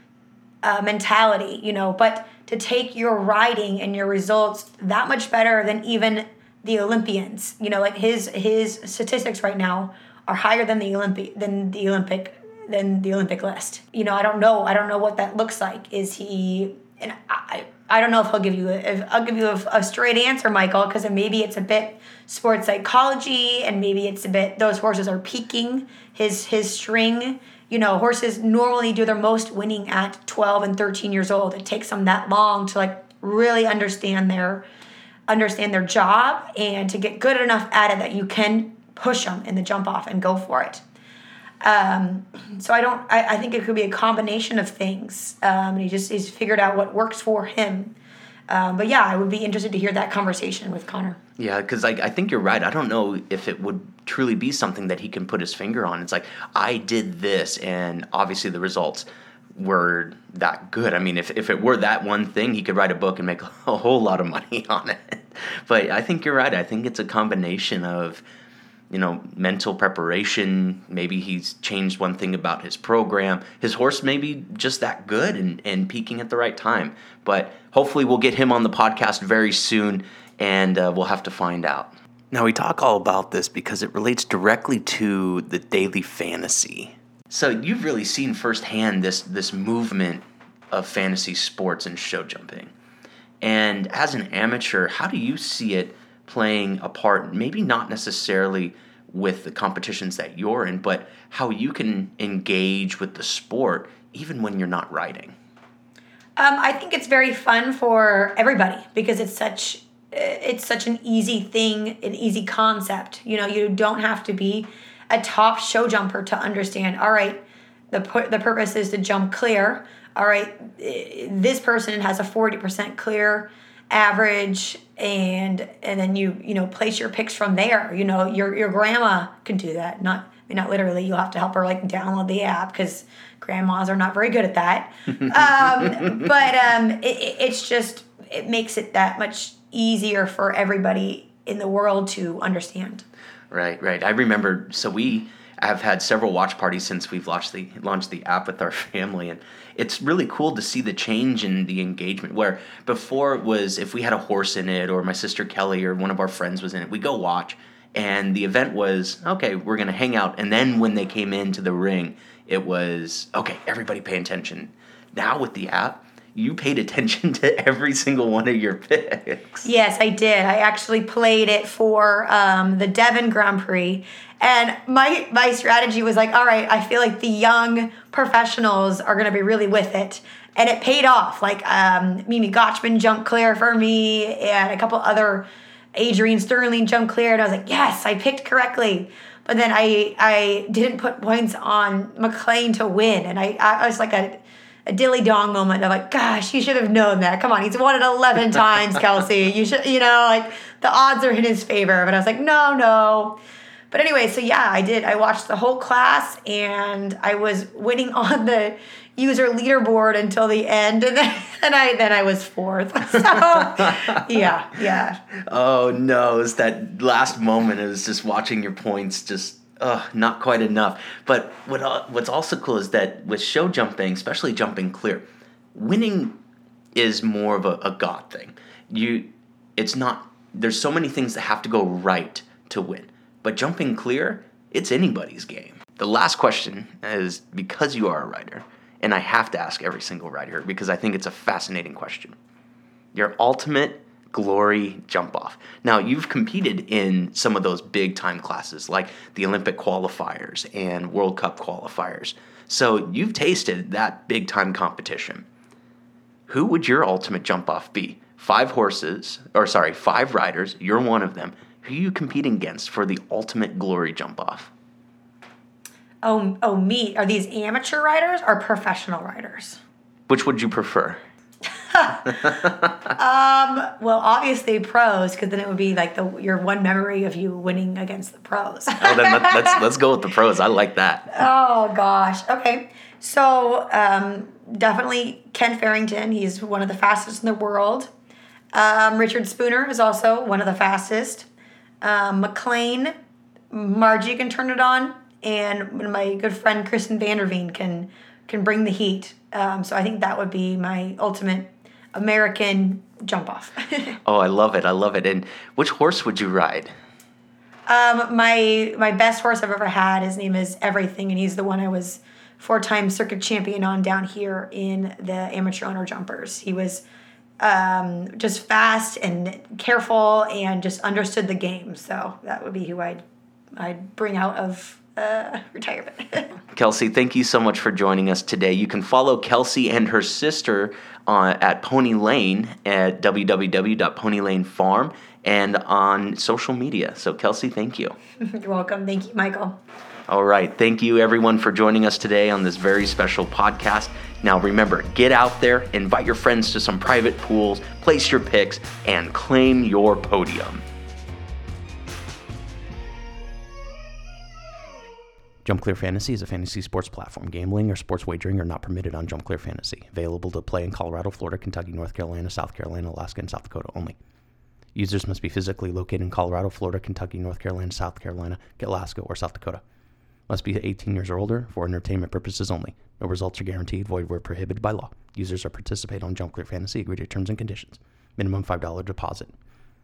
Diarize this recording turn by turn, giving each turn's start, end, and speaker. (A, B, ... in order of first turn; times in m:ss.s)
0:00.6-0:34.6 A
0:35.3-0:40.8 A
0:41.6-0:47.9 A
0:48.5-0:51.2 A
0:51.4-1:08.2 B
1:08.9-1:32.7 B
1:33.4-1:45.3 B
1:46.4-2:23.0 A
2:23.5-2:49.7 B
2:49.6-3:23.4 A
3:23.9-3:35.2 A
3:33.8-3:34.1 B
3:35.4-3:46.4 B
3:46.9-4:02.3 B
4:03.1-4:15.4 B
4:16.5-4:24.7 B
4:26.2-4:29.8 A
4:30.3-4:31.2 B
4:31.9-4:32.2 A
4:32.2-4:33.1 B
4:33.2-4:39.8 A
4:39.0-4:41.4 B
4:41.3-4:48.1 A
4:48.7-4:51.5 A
4:52.0-4:53.1 A
4:53.7-5:04.2 A
5:04.2-5:06.9 B
5:07.9-5:17.0 A
5:17.6-5:23.2 A
5:23.8-5:26.5 A
5:26.7-5:38.1 B
5:38.4-5:39.8 A
5:40.3-5:50.8 B
5:55.6-6:04.2 B
6:04.9-6:09.8 B
6:10.5-6:19.5 B